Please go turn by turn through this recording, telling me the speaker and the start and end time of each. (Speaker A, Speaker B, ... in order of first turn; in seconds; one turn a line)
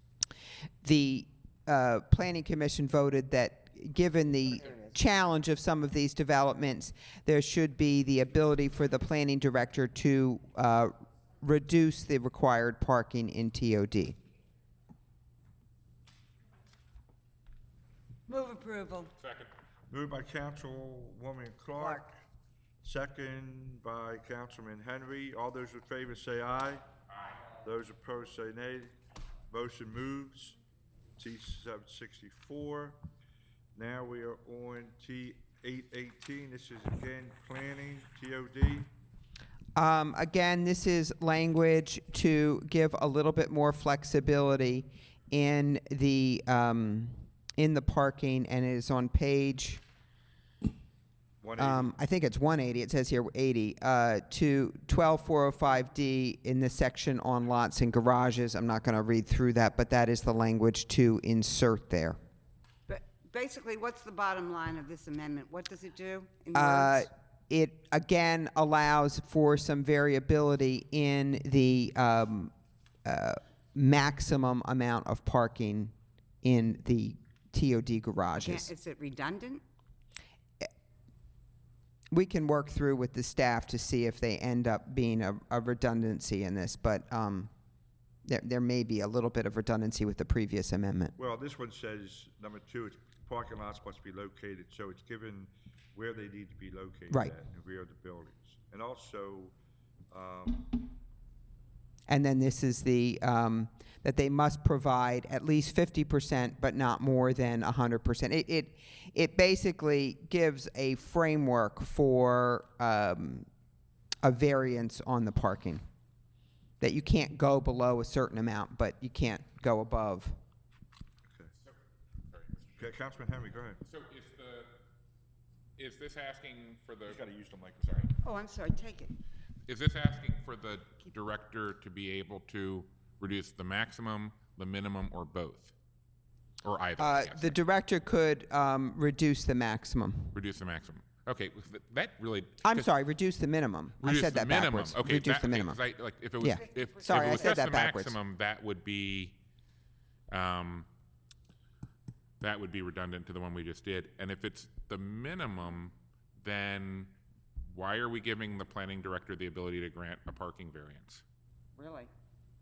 Speaker A: 0.8-14.2
Speaker B: 4.6-5.0
Speaker B: 18.3-19.1
Speaker C: 19.2-19.5
Speaker D: 19.9-22.2
Speaker B: 21.8-22.0
Speaker D: 22.8-26.8
Speaker C: 27.1-27.4
Speaker D: 27.6-28.9
Speaker D: 29.5-30.6
Speaker D: 31.2-33.0
Speaker D: 33.7-38.9
Speaker A: 39.8-49.8
Speaker D: 51.4-51.9
Speaker A: 51.6-62.2
Speaker B: 62.9-67.1
Speaker A: 66.5-72.5
Speaker A: 73.0-78.7
Speaker B: 78.3-79.6
Speaker A: 82.1-87.5
Speaker A: 88.2-91.1
Speaker D: 91.2-99.5
Speaker D: 100.1-100.9
Speaker A: 102.1-113.5
Speaker A: 114.2-115.8
Speaker A: 116.8-120.4
Speaker D: 121.2-121.5
Speaker C: 122.3-122.9
Speaker D: 122.8-123.8
Speaker C: 123.8-124.7
Speaker C: 125.8-127.2
Speaker D: 127.1-128.1
Speaker C: 127.8-128.1
Speaker B: 128.2-129.1
Speaker C: 129.7-135.7
Speaker C: 136.6-137.6
Speaker A: 137.0-140.4
Speaker C: 140.3-142.9
Speaker A: 142.6-145.8
Speaker C: 144.0-149.4
Speaker A: 146.4-148.2
Speaker B: 146.6-147.6
Speaker C: 150.3-150.9
Speaker C: 152.4-157.1
Speaker C: 157.6-161.2
Speaker B: 161.8-162.1